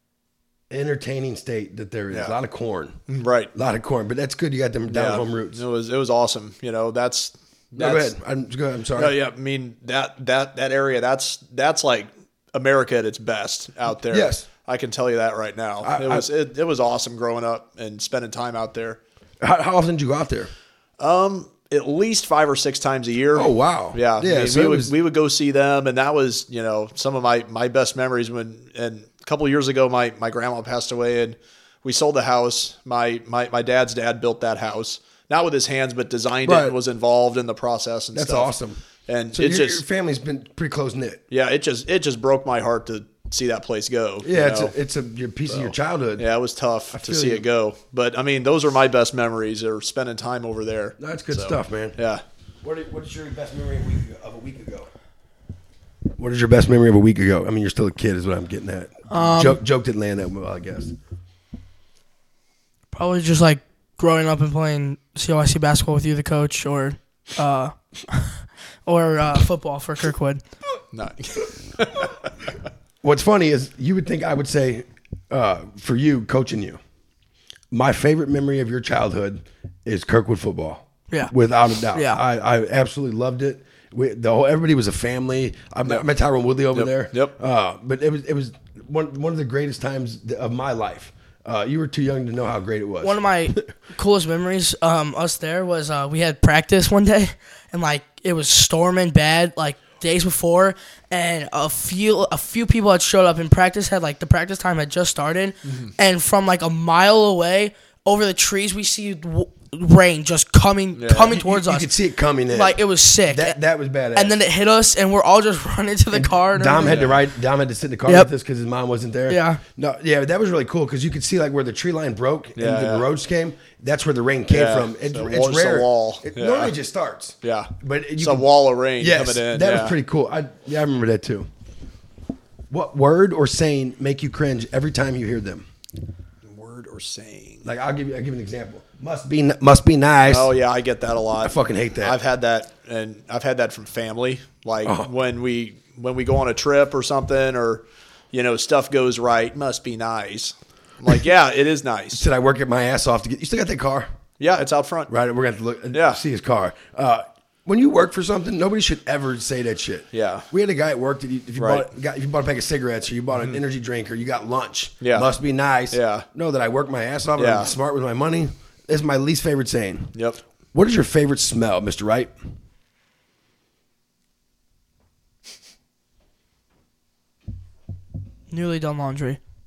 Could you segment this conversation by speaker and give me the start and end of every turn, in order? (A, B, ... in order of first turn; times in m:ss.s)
0:00.7-0:03.0 A
0:03.1-0:03.5 B
0:03.5-0:05.6 A
0:04.9-0:08.1 B
0:07.8-0:09.2 A
0:09.0-0:19.0 B
0:14.1-0:14.5 A
0:15.8-0:16.3 A
0:19.4-0:20.5 A
0:21.0-0:38.5 B
0:23.3-0:24.9 A
0:36.4-0:36.8 A
0:38.1-0:38.8 A
0:39.1-0:39.8 B
0:39.3-0:41.2 A
0:41.3-0:44.7 B
0:44.2-0:46.3 A
0:45.5-0:52.2 B
0:46.9-0:47.4 A
0:51.0-0:52.0 A
0:52.6-0:54.9 A
0:56.2-1:01.0 A
0:59.1-0:59.6 C
1:02.9-1:10.4 C
1:10.9-1:12.2 B
1:13.0-1:16.8 A
1:17.7-1:33.6 A
1:21.9-1:22.2 C
1:26.7-1:27.4 B
1:33.0-1:51.9 C
1:45.6-1:45.9 B
1:51.0-1:51.3 B
1:51.2-1:54.4 A
1:52.5-1:53.6 C
1:54.1-1:57.0 C
1:56.1-2:11.5 A
1:56.9-1:57.2 B
1:59.3-1:59.6 C
2:02.6-2:03.1 B
2:04.5-2:06.7 B
2:07.4-2:10.0 B
2:12.7-2:15.7 A
2:16.4-2:17.6 B
2:17.6-2:20.5 A
2:20.3-2:32.3 B
2:21.4-2:22.2 A
2:24.8-2:25.1 A
2:32.1-2:34.1 A
2:34.4-2:35.1 B
2:35.1-2:50.2 A
2:35.9-2:36.2 B
2:40.1-2:40.5 B
2:41.6-2:41.9 B
2:45.0-2:45.3 B
2:45.9-2:46.3 B
2:47.4-2:47.7 B
2:50.2-2:50.4 B
2:50.7-2:52.3 A
2:58.5-2:59.4 C